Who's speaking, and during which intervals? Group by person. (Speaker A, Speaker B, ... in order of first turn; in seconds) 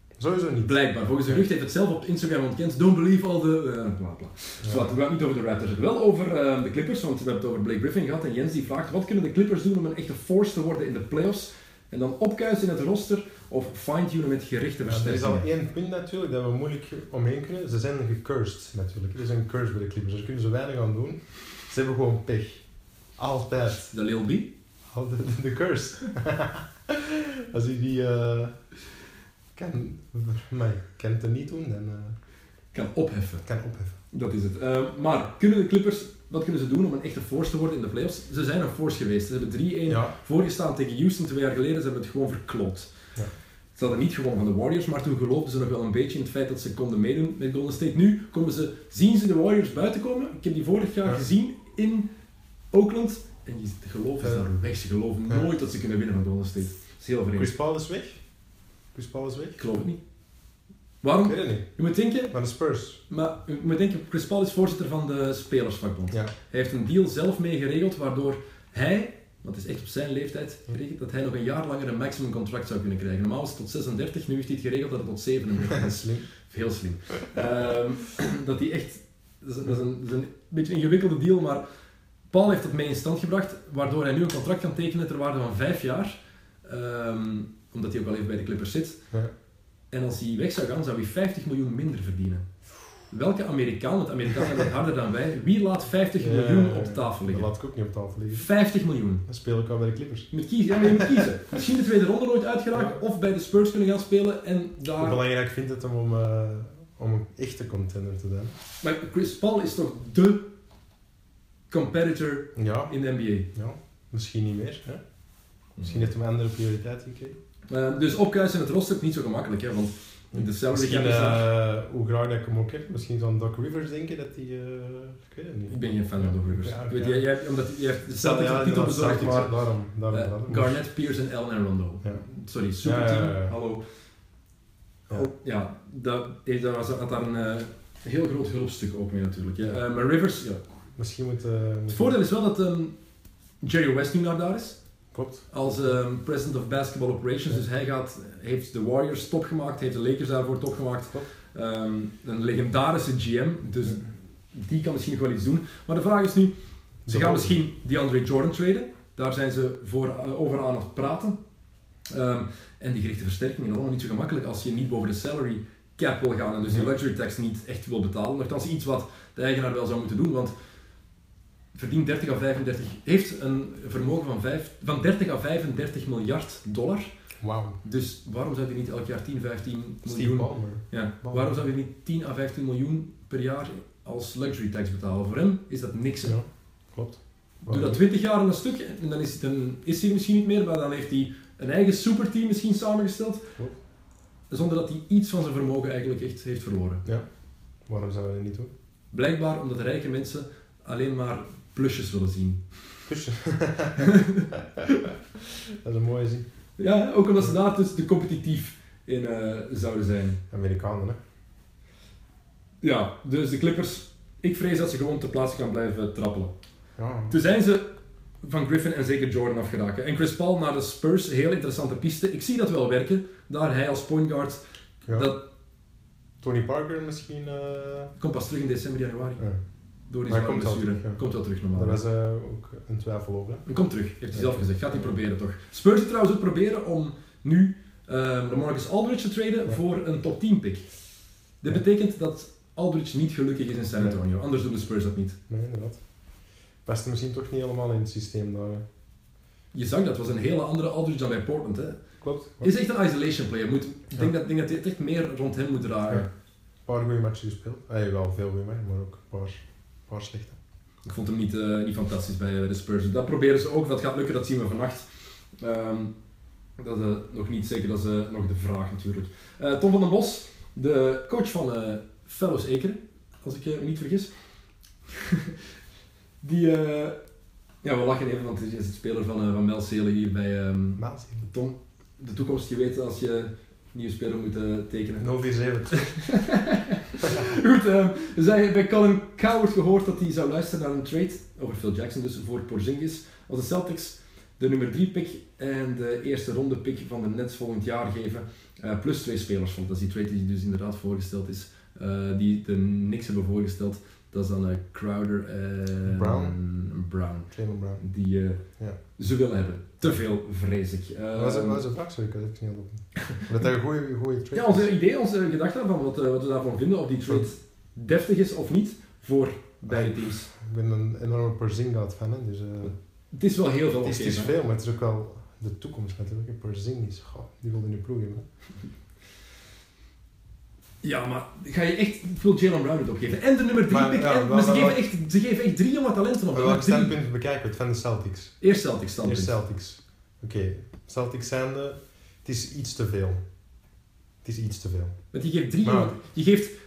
Speaker A: 0.2-1.4, 4.6-4.9, 14.8-22.6, 23.2-23.9, 24.9-28.6, 29.5-32.1, 33.4-34.0, 39.9-40.1, 54.2-54.5, 57.4-58.2, 58.9-59.6, 61.2-63.0, 75.7-76.2, 96.2-98.5, 99.2-100.3, 105.0-108.5, 112.5-112.9, 113.5-115.0, 115.8-117.4, 120.3-127.2, 128.1-130.8, 132.8-133.5, 140.9-142.2, 145.1-145.5, 157.0-157.6, 177.4-177.8, 180.0-181.6, 186.2-188.0, 197.8-198.7, 203.1-204.8, 205.7-206.4, 210.5-211.2, 217.0-217.3, 225.1-225.3, 226.4-228.1, 230.3-231.2, 231.7-233.6, 234.3-235.1, 245.5-246.2, 246.8-248.8, 252.2-252.7, 256.9-260.6, 281.0-281.4, 285.2-286.2, 306.1-306.6, 307.5-308.0, 311.3-314.9, 319.9-322.9, 324.0-328.4, 333.9-335.0, 336.5-338.6, 339.2-343.4, 344.4-345.2, 345.8-346.1
Speaker B: 0.6-15.5, 23.9-24.5, 32.7-33.5, 34.1-42.9, 43.7-52.1, 52.7-57.5, 59.6-60.0, 61.0-62.3, 63.1-81.6, 82.3-89.0, 89.9-92.5, 93.0-97.5, 98.3-99.2, 100.3-105.2, 108.8-110.5, 111.7-113.5, 115.8-116.1, 117.7-121.5, 125.7-129.5, 130.1-133.8, 135.1-140.6, 141.9-142.9, 143.6-144.8, 145.5-156.5, 157.1-161.4, 162.1-170.5, 171.7-177.1, 177.8-186.4, 187.7-193.5, 194.5-197.0, 199.1-203.0, 204.0-204.5, 206.8-210.4, 212.8-216.5, 217.3-225.4, 228.2-229.4, 230.1-232.0, 233.7-240.9, 241.6-245.4, 249.7-252.0, 252.6-256.3, 261.0-265.1, 265.6-266.1, 266.8-274.3, 276.4-277.2, 277.8-285.3, 285.9-311.8, 314.5-320.5, 322.9-324.5, 331.0-337.1, 338.6-339.5, 345.3-346.8